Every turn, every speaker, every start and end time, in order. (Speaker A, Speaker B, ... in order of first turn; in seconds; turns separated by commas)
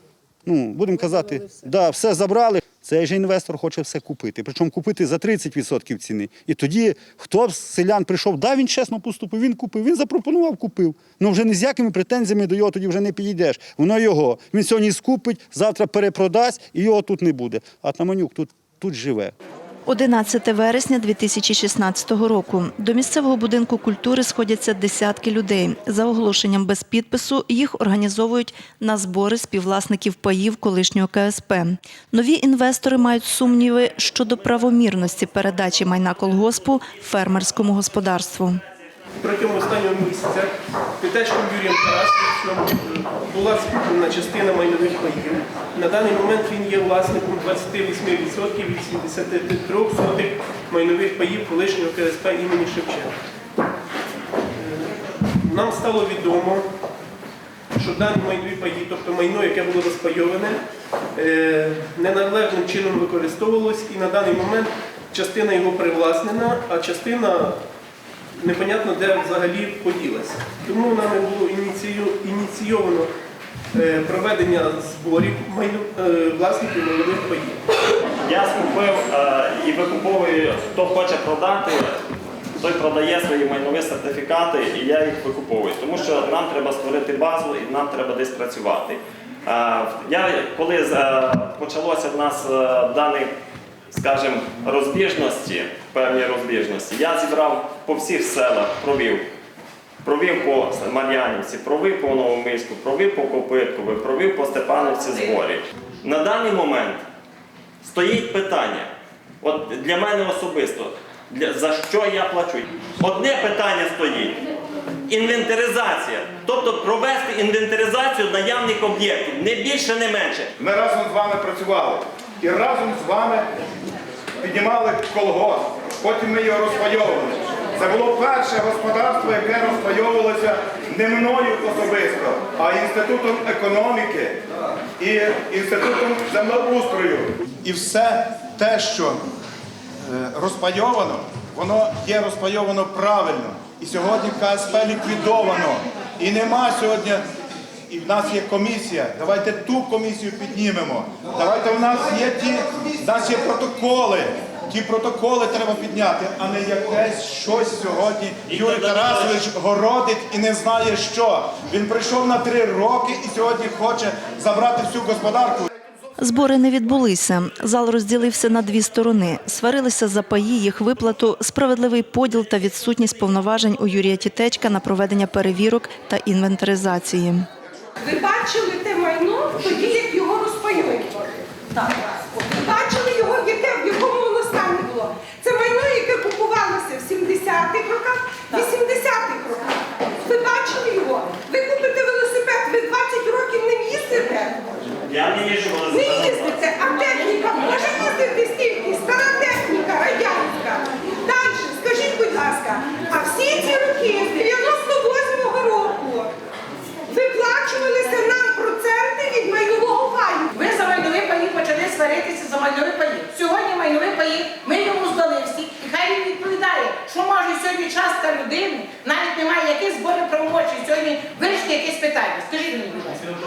Speaker A: 0.5-19.3, Speaker B: 19.9-38.6, Speaker C: 39.2-53.2, Speaker C: 54.5-56.7, Speaker C: 57.8-60.6, Speaker C: 61.1-67.6, Speaker C: 68.4-73.1, Speaker C: 73.7-77.6, Speaker D: 78.2-82.0, Speaker D: 82.6-93.3, Speaker D: 93.9-99.3, Speaker D: 100.0-107.0, Speaker D: 107.8-108.9, Speaker D: 109.4-114.4, Speaker D: 115.1-120.5, Speaker E: 120.6-123.5, Speaker E: 124.4-134.4, Speaker E: 135.0-139.2, Speaker E: 140.0-147.2, Speaker E: 147.9-165.7, Speaker D: 158.5-159.4, Speaker B: 166.2-177.5, Speaker F: 178.0-194.6, Speaker D: 195.1-196.5, Speaker F: 195.9-206.3, Speaker F: 207.1-210.5, Speaker G: 210.5-223.2